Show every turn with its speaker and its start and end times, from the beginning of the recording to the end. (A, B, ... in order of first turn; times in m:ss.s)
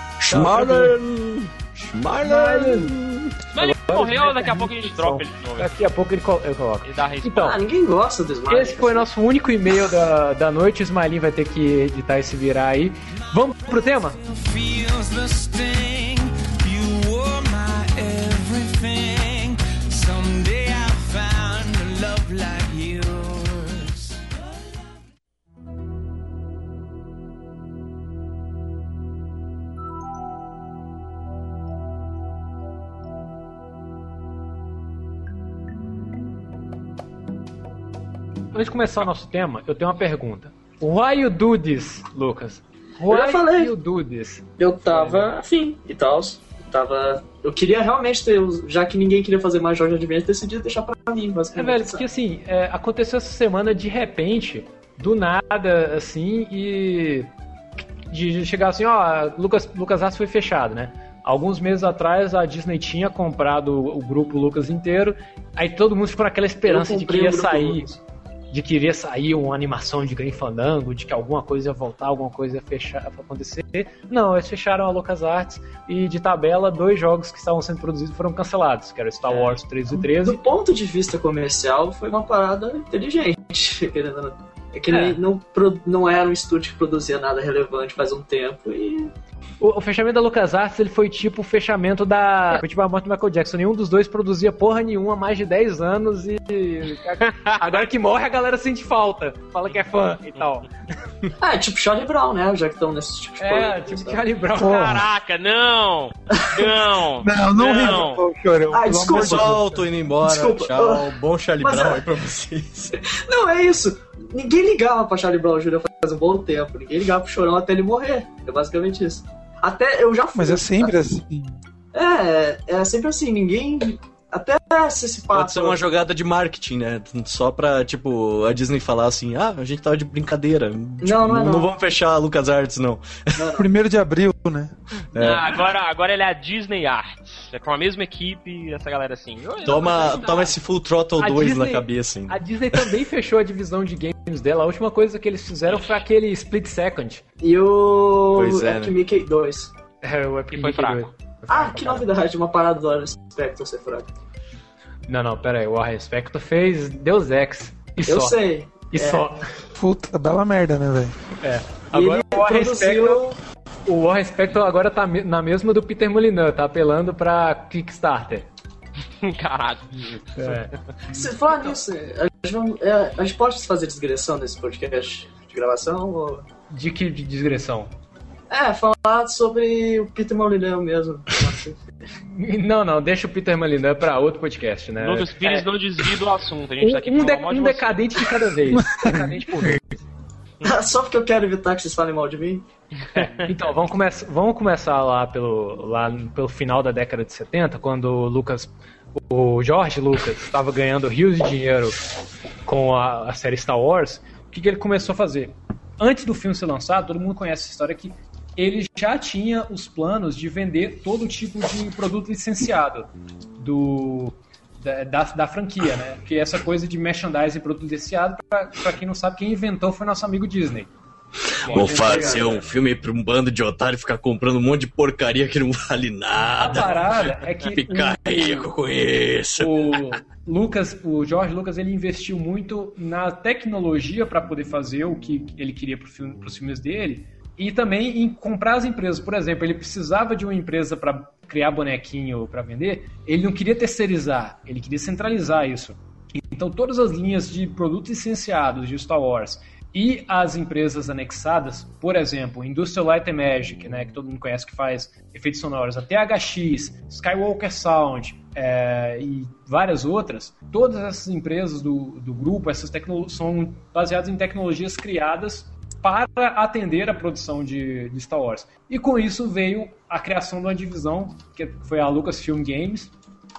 0:00.2-0:03.3 A
0:00.3-0:01.0 B
0:02.2-0:03.0 B
0:03.5-0:05.8 C
0:03.5-0:07.6 B
0:06.8-0:07.6 C
0:07.4-0:09.1 D
0:08.5-0:14.2 B
0:14.2-0:24.2 E
0:38.5-0:45.3 B
0:43.1-0:43.7 D
0:44.6-0:52.0 D
0:51.6-0:57.3 B
0:58.0-1:07.9 B
1:06.7-1:08.0 D
1:08.5-1:20.4 B
1:19.3-1:19.6 C
1:19.9-1:29.1 D
1:24.9-1:25.2 B
1:29.6-1:40.7 B
1:41.4-1:44.2 D
1:43.4-1:45.1 B
1:44.6-1:48.2 C
1:47.2-1:49.8 F
1:48.7-1:49.7 D
1:49.1-1:52.9 A
1:50.2-1:52.0 D
1:53.0-2:01.0 D
2:00.4-2:01.6 F
2:01.9-2:05.9 D
2:05.3-2:13.4 A
2:11.0-2:11.8 D
2:13.4-2:13.7 D
2:13.6-2:14.7 F
2:15.1-2:15.5 A
2:15.2-2:20.6 C
2:19.6-2:22.9 A
2:21.2-2:27.2 B
2:27.4-2:29.7 D
2:28.3-2:28.9 A
2:30.0-2:32.1 B
2:30.5-2:31.1 C
2:31.5-2:34.1 D
2:35.1-2:39.4 B
2:38.1-2:39.3 D
2:39.8-2:41.2 F
2:41.4-2:43.2 B
2:41.9-2:43.4 D
2:43.9-2:48.5 B
2:49.2-2:50.6 C
2:50.4-2:51.2 B
2:51.1-2:56.5 D
2:56.7-2:57.9 B
2:58.5-3:01.8 D
3:02.3-3:05.7 B
3:05.0-3:08.3 C
3:06.8-3:10.0 B
3:10.6-3:12.6 D
3:13.1-3:22.0 B
3:22.7-3:40.9 B
3:41.6-3:50.0 A
3:41.7-3:42.6 B
3:41.7-3:42.6 D
3:46.6-3:48.7 B
3:49.6-4:33.1 B